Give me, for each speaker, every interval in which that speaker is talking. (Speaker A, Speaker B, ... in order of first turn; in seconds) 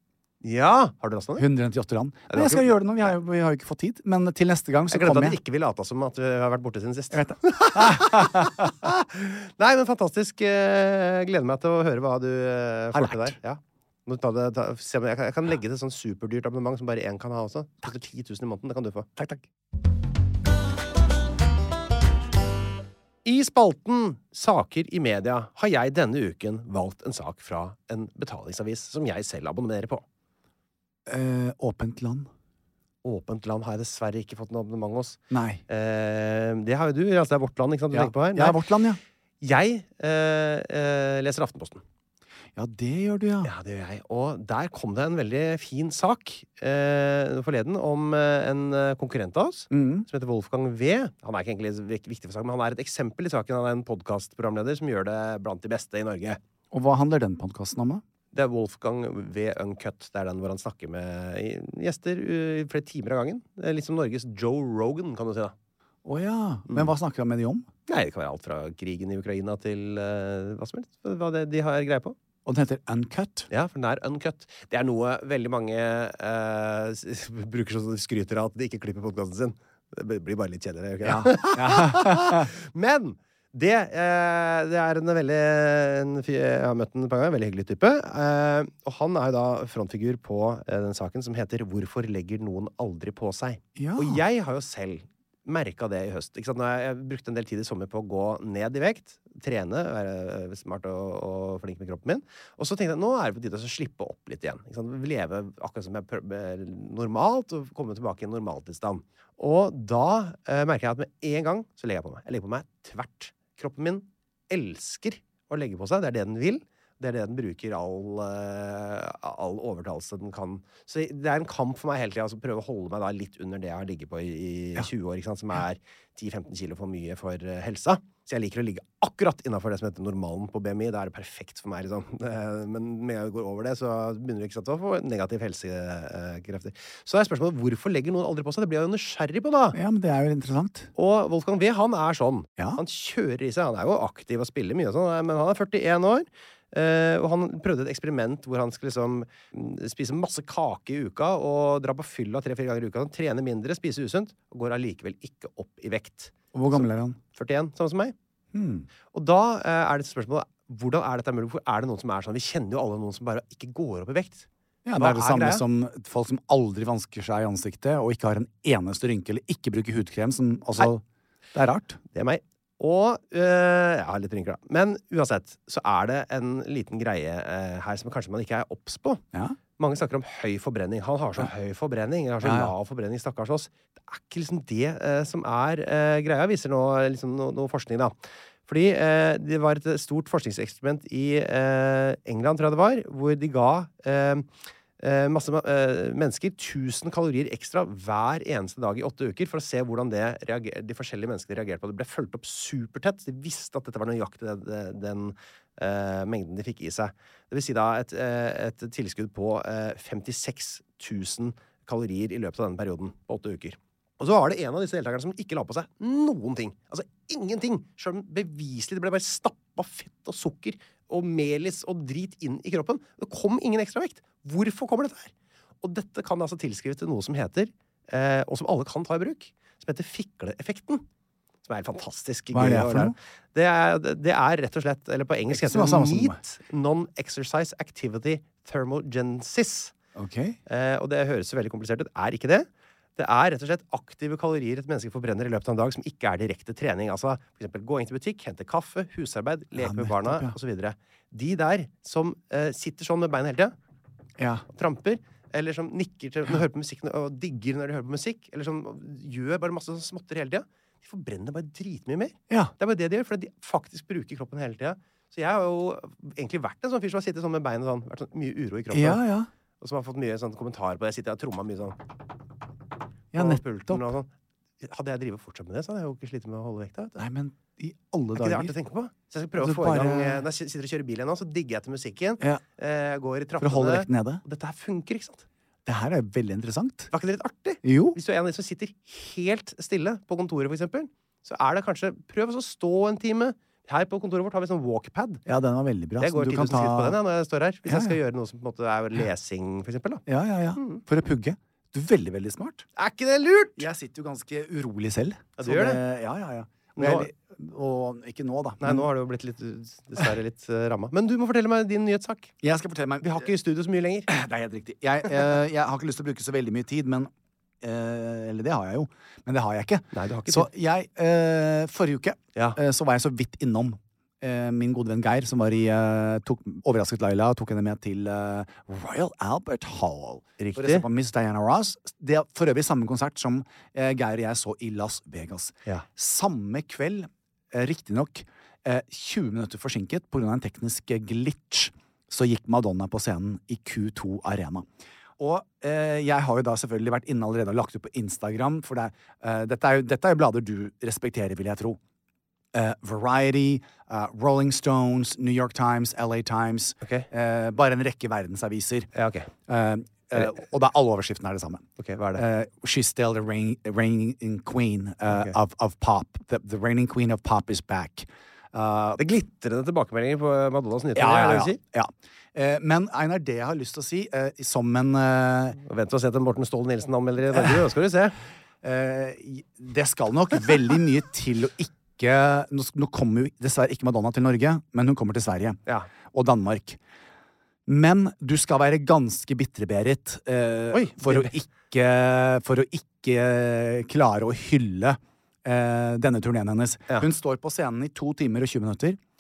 Speaker A: 0.4-1.4, 2.3-3.1, 4.9-19.1, 23.2-30.0, 33.0-38.6, 39.4-41.8, 43.4-56.4, 58.3-65.5, 67.9-72.2, 73.5-139.8, 140.9-158.2, 159.1-165.7, 172.1-179.2, 179.8-188.1, 188.7-194.5, 195.0-231.0, 231.7-239.9, 240.7-253.7, 254.7-269.2, 269.8-272.0, 273.3-274.3, 274.8-277.2, 278.4-285.4, 287.1-295.4, 296.2-300.2, 300.8-301.0, 303.0-303.9, 305.6-306.0, 307.0-307.3, 308.8-312.5, 313.2-314.3, 320.1-320.7, 330.6-331.1, 357.0-357.3, 359.1-359.5, 362.0-362.4, 365.3-365.6, 369.2-371.8, 375.9-378.4, 390.9-391.5
Speaker B: 1.4-5.4, 7.1-8.7, 12.9-13.3, 19.2-19.4, 31.1-32.3, 35.3-35.6, 37.9-39.0, 42.6-43.5, 49.7-50.1, 56.7-58.0, 66.0-67.7, 72.5-73.5, 81.0-82.5, 93.8-94.2, 139.7-140.9, 156.5-157.2, 158.5-158.9, 164.8-171.0, 171.5-172.0, 182.4-182.7, 232.5-233.2, 235.5-236.4, 240.2-240.6, 249.8-250.6, 254.4-254.7, 262.5-262.7, 268.9-269.5, 273.3-274.1, 277.2-278.7, 279.6-280.5, 283.6-284.4, 285.9-287.1, 287.8-288.2, 295.5-297.2, 297.9-298.2, 300.3-302.9, 303.8-309.1, 312.6-313.4, 314.3-317.3, 317.8-344.9, 345.4-352.0, 352.7-359.1, 359.7-361.9, 362.4-369.2, 371.1-375.8, 378.8-385.8, 386.3-387.0, 387.9-399.2